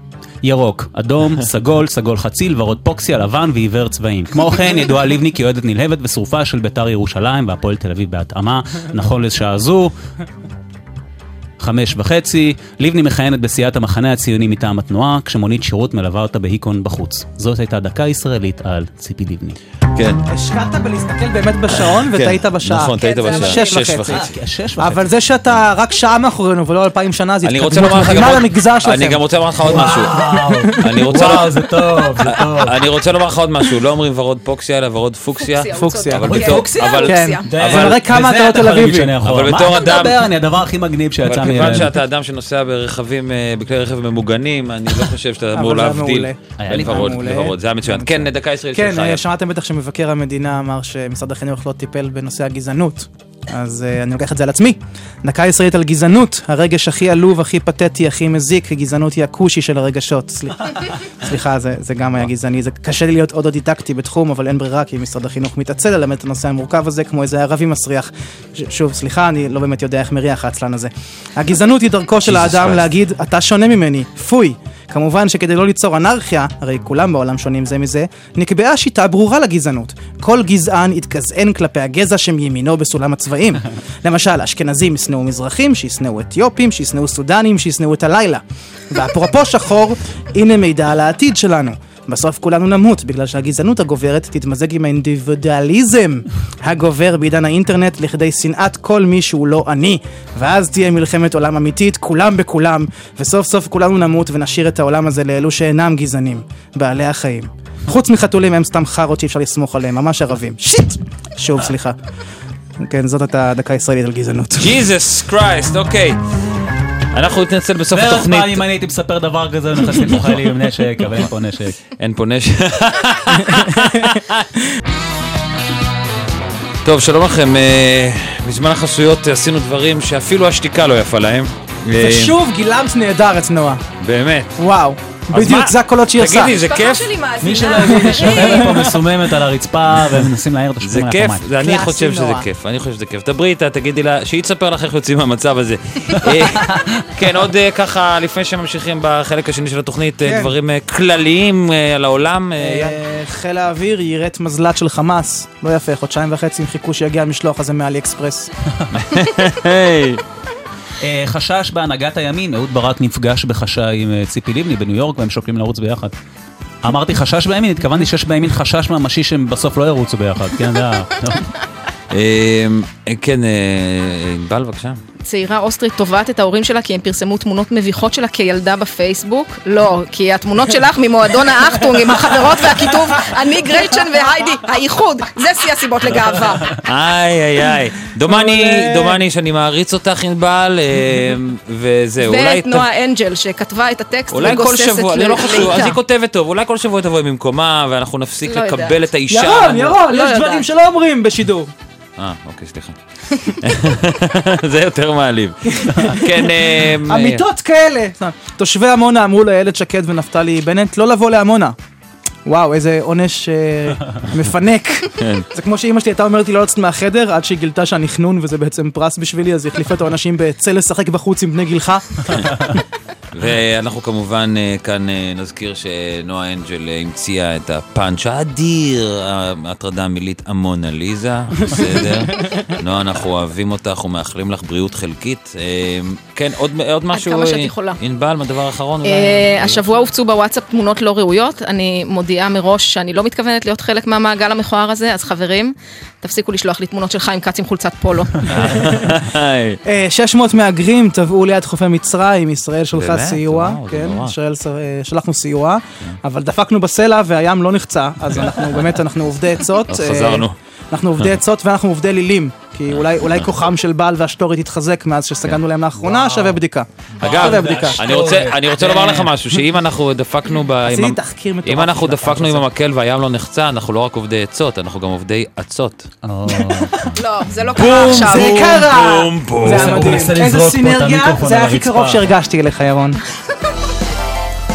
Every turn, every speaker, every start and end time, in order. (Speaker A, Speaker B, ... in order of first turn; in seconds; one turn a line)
Speaker A: 0.4-9.9
Speaker A: 11.6-19.6
Speaker B: 19.9-20.2
Speaker C: 20.3-24.2
Speaker B: 21.8-24.3
Speaker D: 23.0-23.8
Speaker A: 24.1-25.1
Speaker C: 24.8-31.4
Speaker B: 27.4-38.0
Speaker A: 29.6-32.8
Speaker D: 35.4-37.5
Speaker C: 35.8-36.3
Speaker A: 36.2-42.0
Speaker C: 37.0-39.1
Speaker B: 39.2-40.3
Speaker B: 41.2-49.2
Speaker C: 45.5-112.0
Speaker A: 46.6-47.1
Speaker B: 72.2-72.8
Speaker C: 112.8-114.8
Speaker B: 114.6-116.2
Speaker B: 117.1-118.6
Speaker A: 117.9-121.8
Speaker B: 122.0-124.5
Speaker B: 126.8-132.4
Speaker C: 132.0-133.8
Speaker B: 134.0-134.6
Speaker C: 134.6-136.5
Speaker B: 135.3-137.1
Speaker D: 136.5-138.8
Speaker A: 137.4-141.5
Speaker C: 138.3-138.9
Speaker B: 140.8-153.0
Speaker C: 141.6-142.5
Speaker C: 150.2-150.5
Speaker C: 152.6-158.5
Speaker B: 158.9-160.2
Speaker A: 161.0-166.1
Speaker A: 166.8-171.5
Speaker B: 172.1-175.0
Speaker D: 175.2-186.8
Speaker B: 186.8-192.8
Speaker C: 188.3-189.2
Speaker D: 192.2-196.0
Speaker B: 194.3-200.0
Speaker D: 198.4-199.0
Speaker C: 199.3-201.7
Speaker D: 200.1-200.7
Speaker B: 202.2-203.0
Speaker B: 203.5-207.4
Speaker C: 205.7-206.4
Speaker C: 207.1-211.8
Speaker C: 212.5-222.3
Speaker B: 215.2-215.5
Speaker B: 223.3-240.1
Speaker D: 237.1-238.0
Speaker D: 239.0-248.5
Speaker B: 248.4-249.8
Speaker C: 249.8-268.0
Speaker B: 252.9-254.4
Speaker B: 259.9-260.6
Speaker B: 262.9-263.5
Speaker A: 266.0-266.6
Speaker A: 267.2-269.3
Speaker B: 267.2-276.1
Speaker C: 270.9-272.6
Speaker A: 276.2-277.1
Speaker C: 276.6-277.0
Speaker D: 277.1-278.7
Speaker B: 277.8-280.3
Speaker C: 278.1-283.2
Speaker A: 279.7-282.2